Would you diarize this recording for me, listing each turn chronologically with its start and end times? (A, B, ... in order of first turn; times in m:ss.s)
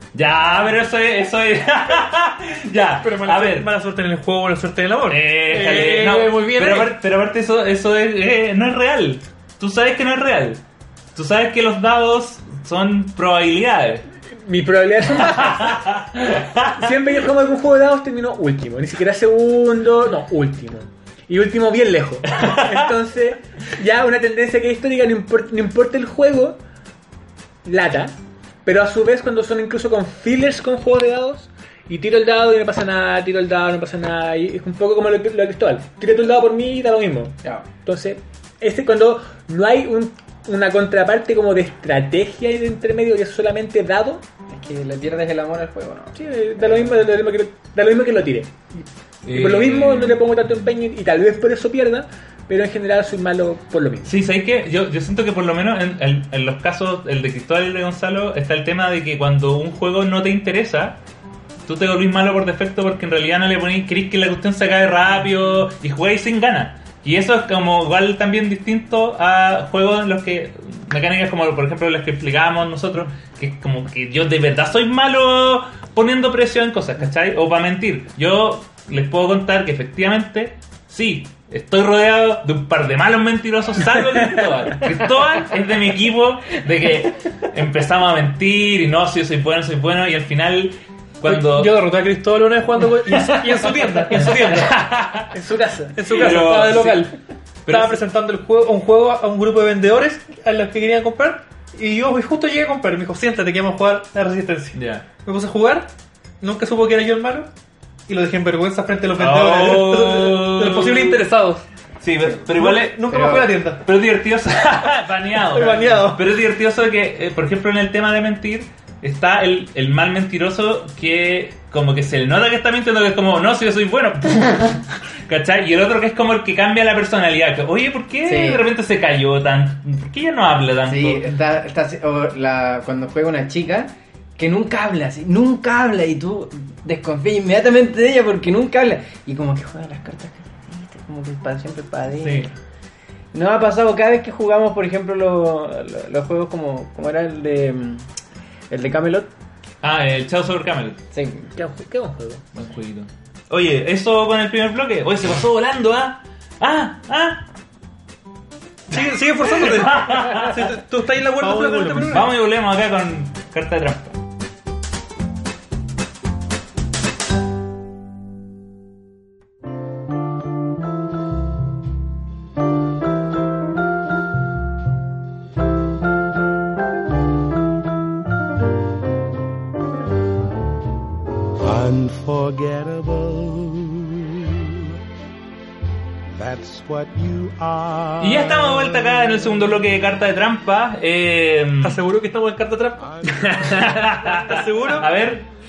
0:00.1-0:03.7 A
0:03.0-0:07.0 B
0:05.1-0:10.6 A
0:11.2-0:14.0 A
0:14.4-0:15.9 C
0:15.2-0:16.8 A
0:16.6-0:26.6 C
0:22.4-0:22.9 A
0:27.6-0:44.2 C
0:44.5-0:47.0 D
0:46.2-0:54.1 C
0:49.2-0:50.2 A
0:54.0-1:01.0 A
1:01.6-1:31.8 A
1:31.3-1:34.7 B
1:34.1-1:35.3 A
1:35.3-1:36.4 C
1:36.0-1:37.1 B
1:36.1-1:37.1 A
1:37.6-1:38.0 A
1:37.7-1:45.9 B
1:44.7-1:45.0 A
1:46.4-1:47.5 B
1:48.1-1:51.7 B
1:49.2-1:51.2 A
1:52.0-2:11.3 A
1:52.6-1:53.8 B
1:53.1-1:53.5 D
1:55.4-1:56.2 B
2:08.2-2:08.7 D
2:10.9-2:22.5 D
2:22.2-2:22.5 A
2:23.3-2:28.1 D
2:28.7-2:29.3 D
2:29.8-2:31.0 A
2:31.1-2:31.5 D
2:31.6-2:32.4 C
2:32.5-2:37.5 A
2:38.9-2:42.3 B
2:38.9-2:40.8 A
2:41.4-2:42.2 C
2:42.0-2:44.2 A
3:01.6-3:04.8 E
3:06.4-3:08.9 E
3:08.2-3:12.0 A
3:11.8-3:13.0 B
3:13.0-3:14.4 E
3:13.3-3:13.8 C
3:13.6-3:15.5 A
3:14.4-3:15.1 B